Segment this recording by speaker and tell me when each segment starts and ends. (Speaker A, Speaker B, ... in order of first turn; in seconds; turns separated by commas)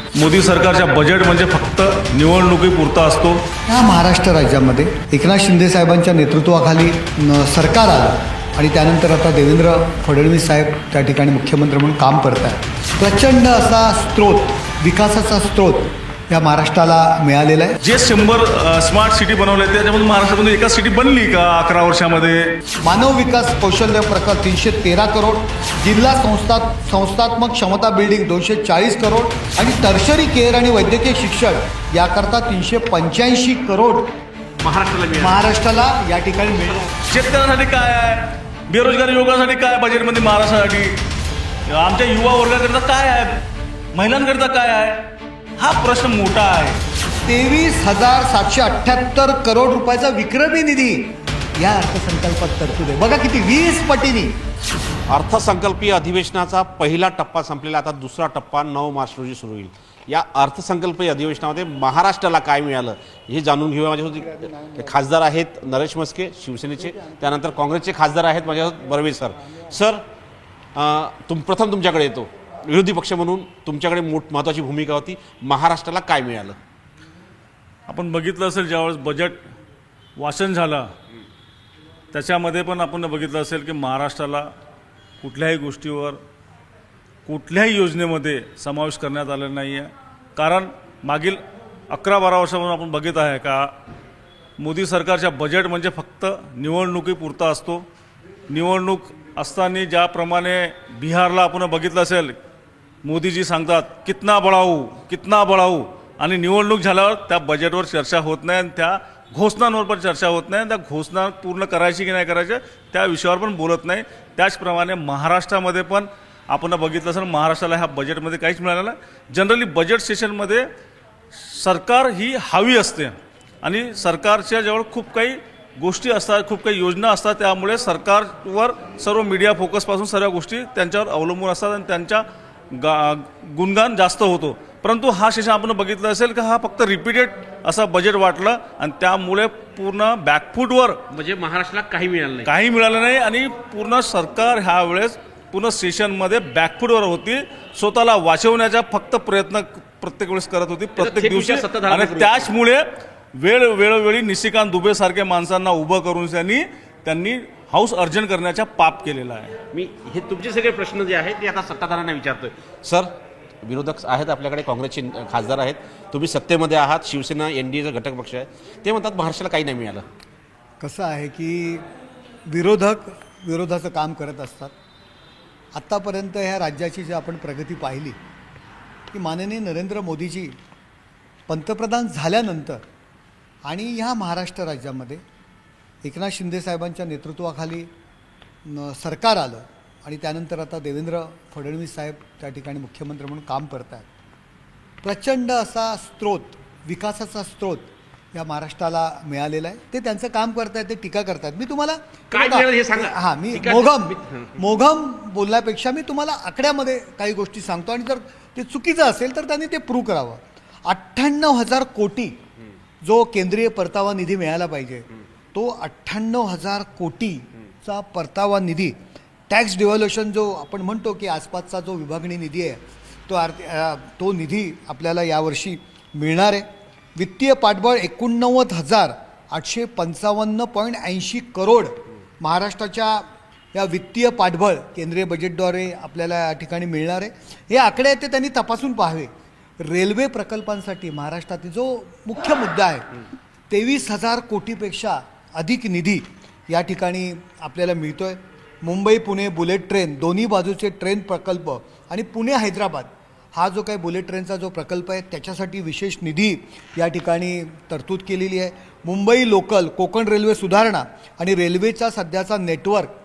Speaker A: 0.1-3.4, Speaker B: 3.7-17.8, Speaker A: 17.8-22.5, Speaker B: 22.8-34.1, Speaker C: 34.6-35.4, Speaker B: 35.2-36.9, Speaker A: 37.1-41.0, Speaker A: 41.7-45.1, Speaker A: 45.6-46.8, Speaker B: 47.2-54.4, Speaker C: 55.1-70.0, Speaker C: 70.7-76.6, Speaker A: 77.9-79.4, Speaker A: 80.2-80.9, Speaker A: 82.1-84.5, Speaker A: 85.2-86.2, Speaker A: 87.2-93.7, Speaker A: 94.6-97.8, Speaker A: 98.5-102.3, Speaker A: 103.0-120.7, Speaker A: 121.3-141.0, Speaker C: 141.1-142.5, Speaker A: 142.4-159.6, Speaker C: 151.0-152.5, Speaker C: 159.7-163.1, Speaker C: 163.6-170.1, Speaker B: 170.8-171.8, Speaker B: 172.5-174.7, Speaker B: 175.7-178.2, Speaker B: 179.1-180.6, Speaker B: 181.5-182.8, Speaker B: 183.6-185.2, Speaker B: 186.0-187.9, Speaker B: 188.6-194.1, Speaker B: 195.0-212.3, Speaker C: 202.3-204.6, Speaker B: 213.0-218.9, Speaker B: 219.5-243.1, Speaker B: 243.7-263.1